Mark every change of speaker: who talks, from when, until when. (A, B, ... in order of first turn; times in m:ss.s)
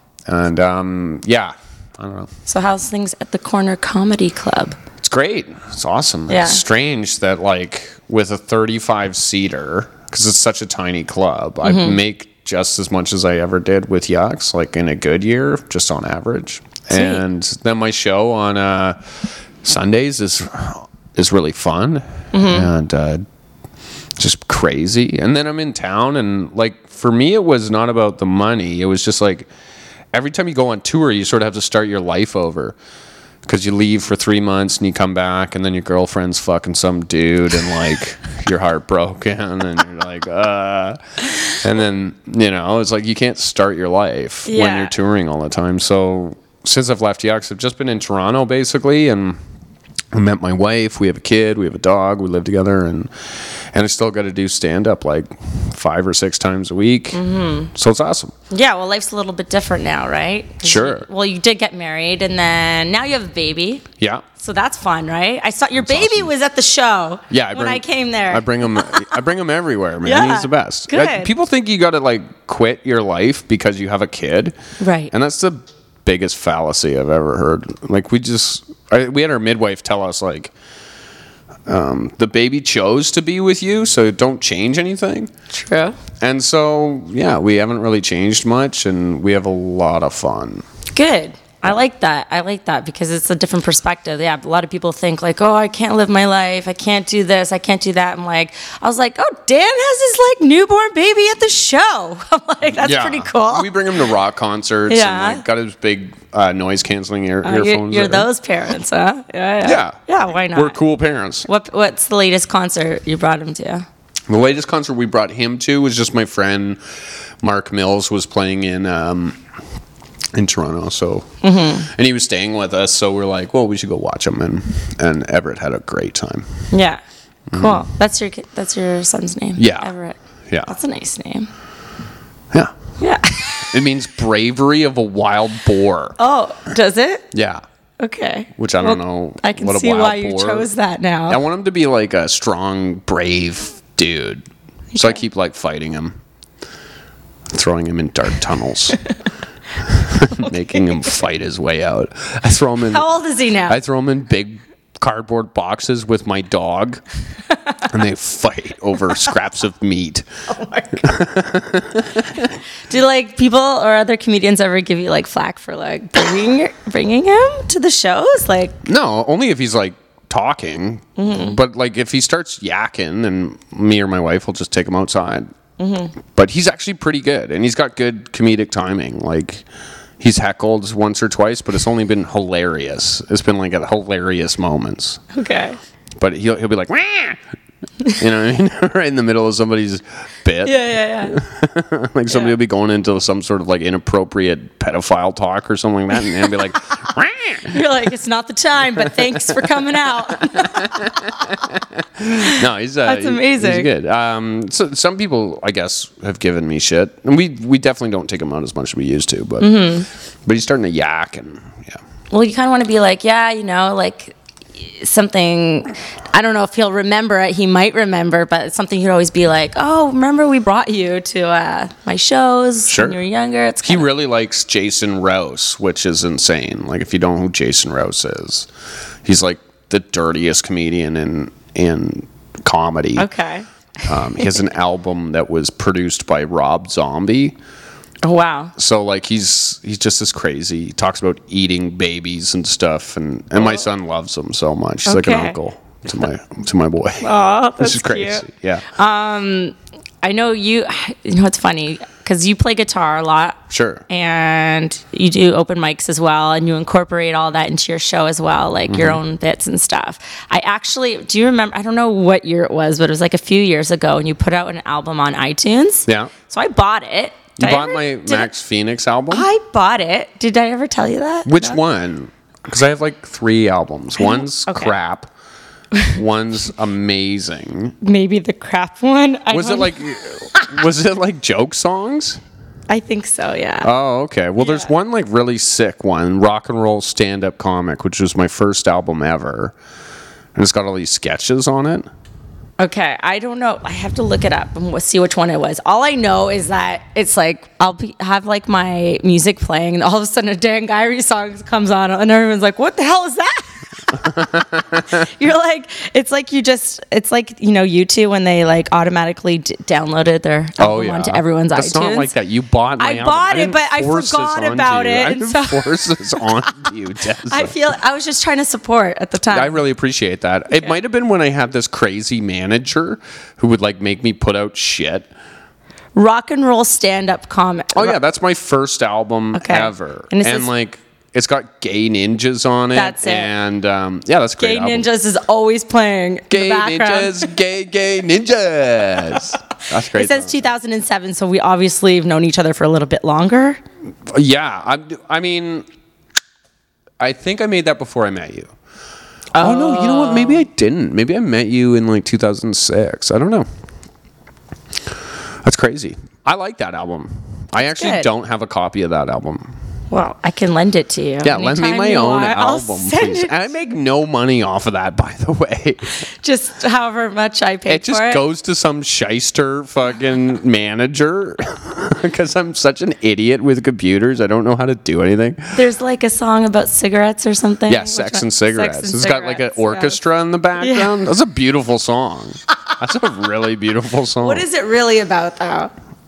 0:00.3-0:02.3 A
0:02.5-0:04.8 B
0:05.0-0:19.0 A
0:06.3-0:06.6 B
0:11.6-0:12.0 B
0:16.9-0:17.2 B
0:19.6-0:23.2 A
0:22.3-0:22.7 B
0:24.2-0:29.5 A
0:30.1-0:32.8 A
0:33.4-0:49.4 A
0:44.5-0:44.9 B
0:50.1-0:53.1 A
0:53.7-0:57.2 A
0:57.1-0:57.7 B
0:57.7-0:58.3 A
0:58.5-1:03.8 B
1:00.6-1:01.1 A
1:04.0-1:04.2 A
1:04.4-1:09.1 B
1:05.8-1:06.3 A
1:07.3-1:14.6 A
1:10.0-1:11.3 B
1:14.8-1:15.1 B
1:15.1-1:20.5 A
1:21.7-1:25.3 A
1:25.5-1:26.0 B
1:26.2-1:30.6 A
1:31.0-1:43.7 B
1:42.8-1:48.3 A
1:44.9-1:45.4 B
1:47.4-1:50.8 B
1:49.6-1:51.5 A
1:51.4-1:53.9 B
1:54.3-1:56.8 A
1:57.4-1:59.4 A
2:00.3-2:01.3 A
2:01.4-2:01.9 B
2:01.8-2:06.5 A
2:06.7-2:07.0 B
2:07.5-2:07.8 A
2:07.5-2:11.5 B
2:09.6-2:09.9 A
2:13.0-2:13.8 B
2:13.6-2:16.2 A
2:16.2-2:17.2 B
2:17.3-2:17.6 A
2:18.0-2:21.4 B
2:18.6-2:20.7 A
2:21.3-2:26.2 A
2:24.9-2:25.2 B
2:27.5-2:29.0 A
2:29.8-2:33.1 A
2:32.9-2:33.8 B
2:33.7-2:37.0 A
2:37.8-2:40.3 A
2:40.5-2:41.1 B
2:41.0-2:42.5 A
2:42.9-2:48.8 B
2:48.8-2:55.5 A
2:51.2-2:51.6 B
2:55.8-2:56.1 B
2:56.3-2:59.6 A
3:00.2-3:05.2 A
3:05.3-3:05.8 B
3:06.2-3:07.4 A
3:08.2-3:17.8 A
3:10.6-3:11.4 B
3:12.3-3:12.6 B
3:17.7-3:21.1 B
3:19.0-3:19.6 A
3:20.4-3:29.8 A
3:22.3-3:23.9 B
3:29.6-3:30.1 B
3:30.5-3:32.0 A
3:32.3-3:44.1 B
3:42.9-3:43.2 A
3:43.8-3:48.7 A
3:49.2-3:53.3 A
3:53.2-3:53.7 B
3:54.1-3:57.6 A
3:58.2-3:58.7 B
3:58.8-4:08.9 A
4:05.1-4:05.6 B
4:07.2-4:28.5 B
4:13.7-4:14.0 A
4:18.9-4:19.2 A
4:26.1-4:26.3 A
4:27.6-4:29.5 A
4:29.3-4:31.8 B
4:31.5-4:35.3 A
4:34.2-4:34.9 B
4:36.1-4:38.0 A
4:38.0-4:40.0 B
4:39.5-4:42.4 A
4:42.9-4:43.9 B
4:43.8-4:49.8 A
4:44.6-4:44.9 B
4:50.6-4:52.1 A
4:52.8-5:04.2 B
5:04.1-5:05.1 A
5:05.1-5:12.3 B
5:10.8-5:17.8 A
5:13.0-5:16.7 B
5:17.4-5:19.8 B
5:19.5-5:25.3 A
5:26.2-5:28.2 B
5:27.9-5:35.1 A
5:29.5-5:30.7 B
5:32.9-5:33.5 B
5:34.6-5:37.5 B
5:36.5-5:40.7 A
5:40.1-5:43.8 B
5:44.3-5:45.9 A
5:47.2-5:48.7 A
5:49.5-5:50.6 B
5:49.6-5:53.7 A
5:55.6-5:59.7 A
5:57.8-5:58.3 B
6:00.1-6:03.5 B
6:01.4-6:06.1 A
6:06.1-6:08.4 B
6:07.9-6:15.8 A
6:15.7-6:20.2 B
6:17.9-6:24.6 A
6:20.8-6:21.2 B
6:24.4-6:25.9 B